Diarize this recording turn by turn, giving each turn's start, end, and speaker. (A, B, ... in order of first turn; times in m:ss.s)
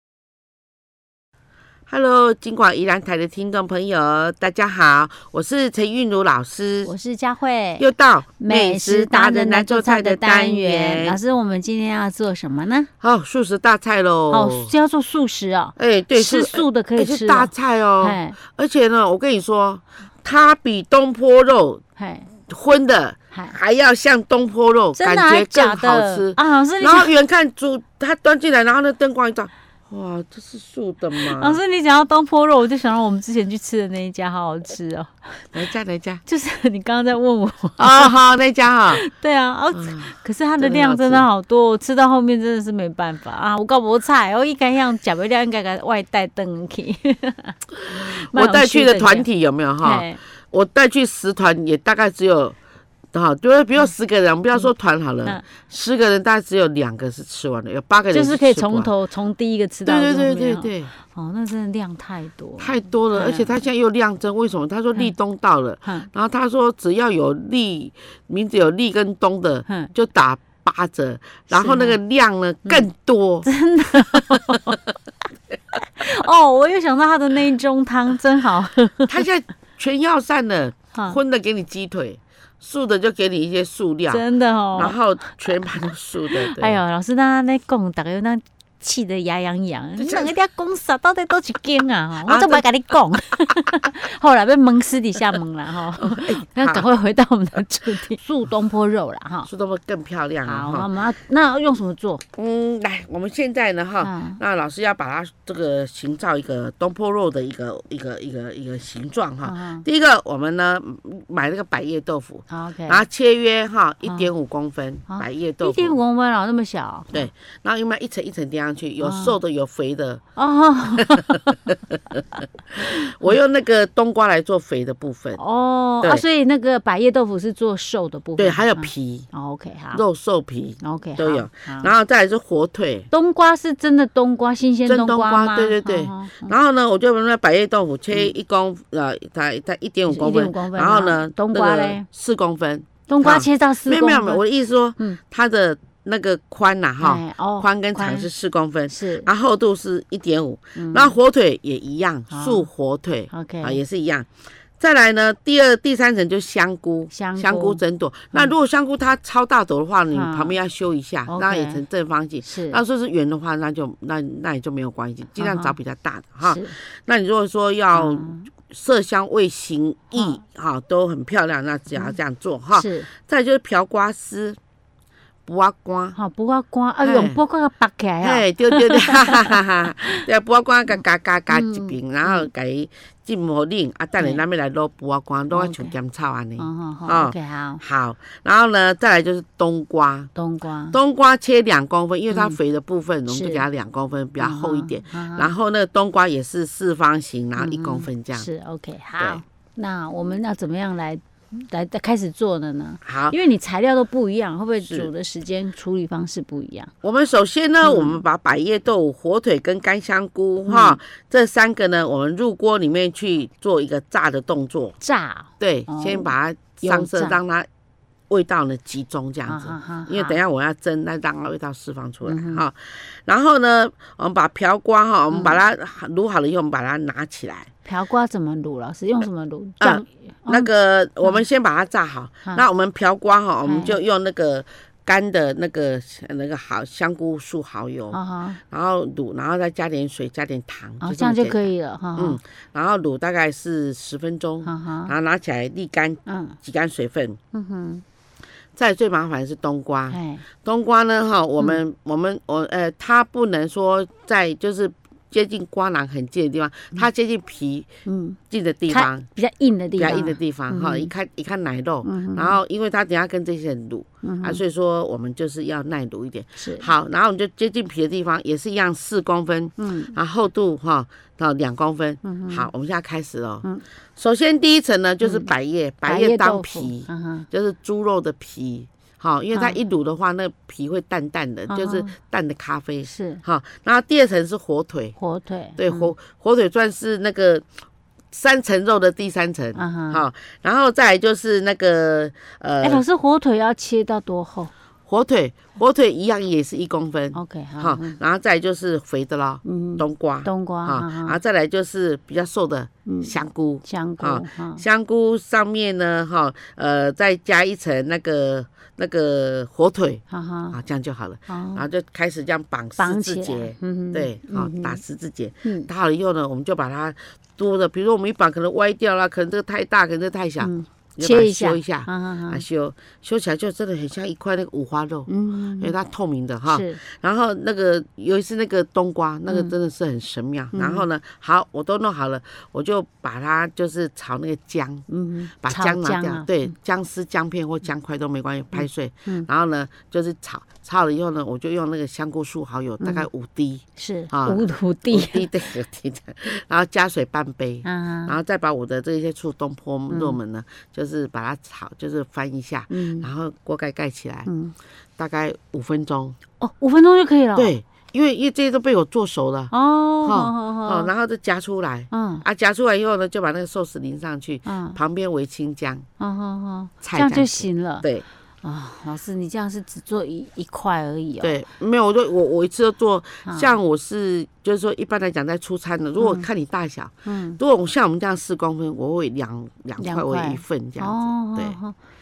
0:01.9-0:06.9 A
0:06.8-0:07.8 B
0:07.8-0:11.2 A
0:08.4-0:12.9 B
0:13.0-0:14.7 A
0:14.3-0:18.4 B
0:15.8-0:21.8 A
0:22.0-0:22.3 B
0:22.5-0:31.6 A
0:25.0-0:27.1 B
0:31.2-0:35.5 B
0:35.5-0:36.2 A
0:36.2-0:38.2 B
0:37.8-0:39.0 A
0:38.9-0:49.3 B
0:39.7-0:41.3 A
0:48.3-0:52.6 A
0:49.8-0:50.2 B
0:53.1-0:58.9 A
0:58.1-1:03.6 B
0:59.8-1:00.9 A
1:02.6-1:13.5 A
1:09.6-1:09.9 B
1:11.5-1:12.0 B
1:13.4-1:14.8 B
1:16.0-1:19.2 B
1:19.1-1:24.2 A
1:20.9-1:21.2 B
1:24.1-1:25.0 B
1:24.7-1:26.8 A
1:26.3-1:39.5 B
1:30.0-1:30.3 A
1:32.2-1:32.6 A
1:36.0-1:36.9 A
1:39.4-1:40.9 A
1:40.4-1:42.2 B
1:42.4-1:56.0 A
1:44.0-1:44.4 B
1:49.4-1:49.8 B
1:52.5-1:53.0 B
1:54.0-1:54.3 B
1:55.1-1:57.3 B
1:57.1-2:00.2 A
1:59.0-1:59.4 B
2:00.4-2:01.7 B
2:02.8-2:05.4 A
2:02.8-2:03.3 B
2:05.4-2:10.0 B
2:08.4-2:09.3 A
2:09.9-2:13.1 A
2:10.8-2:11.9 B
2:13.1-2:16.6 B
2:14.8-2:54.6 A
2:20.1-2:22.0 B
2:23.1-2:24.4 B
2:27.0-2:28.3 B
2:28.9-2:29.3 B
2:30.8-2:31.2 B
2:32.3-2:32.7 B
2:33.3-2:33.8 B
2:37.1-2:37.8 B
2:40.1-2:40.6 B
2:41.3-2:41.8 B
2:42.4-2:42.8 B
2:45.4-2:45.8 B
2:46.4-2:46.8 B
2:47.9-2:48.5 B
2:52.7-2:53.1 B
2:55.4-2:56.2 A
2:56.1-3:00.2 B
2:57.0-2:57.4 A
2:58.2-3:10.3 A
3:01.5-3:02.5 B
3:04.2-3:04.4 B
3:05.5-3:06.0 B
3:06.6-3:07.8 B
3:10.3-3:11.0 B
3:10.9-3:18.5 A
3:12.3-3:12.6 B
3:13.3-3:13.6 B
3:14.4-3:15.5 B
3:17.6-3:26.9 B
3:23.0-3:23.4 A
3:24.8-3:25.1 A
3:27.0-3:35.0 A
3:27.8-3:28.2 B
3:30.6-3:31.0 B
3:35.0-3:37.4 B
3:35.6-3:37.7 A
3:38.3-3:47.7 A
3:39.4-3:40.4 B
3:42.2-3:42.6 B
3:45.3-3:45.6 B
3:47.8-3:50.7 B
3:49.8-4:07.4 A
3:53.6-3:54.0 B
3:58.1-3:58.6 B
4:01.0-4:02.4 B
4:04.6-4:05.1 B
4:06.2-4:06.6 B
4:07.5-4:08.0 B
4:08.7-4:17.9 A
4:10.1-4:10.4 B
4:18.0-4:21.1 B
4:18.5-4:19.3 A
4:20.0-4:45.1 A
4:22.0-4:22.6 B
4:24.2-4:24.6 B
4:26.6-4:26.9 B
4:29.8-4:30.1 B
4:32.2-4:32.7 B
4:35.2-4:35.5 B
4:36.0-4:37.5 B
4:39.5-4:39.8 B
4:41.7-4:42.1 B
4:43.0-4:43.4 B
4:45.2-4:46.1 B
4:45.8-4:47.6 A
4:48.3-4:53.0 A
4:49.7-4:50.2 B
4:52.8-4:54.7 B
4:55.0-5:35.1 A
4:57.3-4:58.2 B
4:59.6-5:01.4 B
5:03.0-5:04.8 B
5:10.3-5:10.8 B
5:11.5-5:11.8 B
5:13.0-5:15.0 B
5:15.6-5:15.9 B
5:20.6-5:22.6 B
5:25.3-5:25.9 B
5:26.6-5:27.0 B
5:29.5-5:29.7 B
5:30.7-5:31.1 B
5:35.1-5:36.5 B
5:35.6-5:54.5 A
5:38.7-5:39.5 B
5:43.0-5:43.3 B
5:44.0-5:45.5 B
5:47.8-5:48.3 B
5:50.1-5:50.4 B
5:52.9-5:53.3 B
5:54.4-5:54.7 B
5:55.2-5:56.4 A
5:56.6-5:57.7 B
5:57.5-5:59.7 A
5:59.7-6:01.1 B
6:00.2-6:06.0 A
6:02.1-6:02.4 B
6:04.6-6:05.0 B
6:06.2-6:08.1 B
6:07.0-6:08.2 A
6:08.6-6:11.6 B
6:11.4-6:21.8 A
6:13.4-6:13.7 B
6:16.2-6:16.5 B
6:17.2-6:17.6 B
6:20.0-6:22.0 B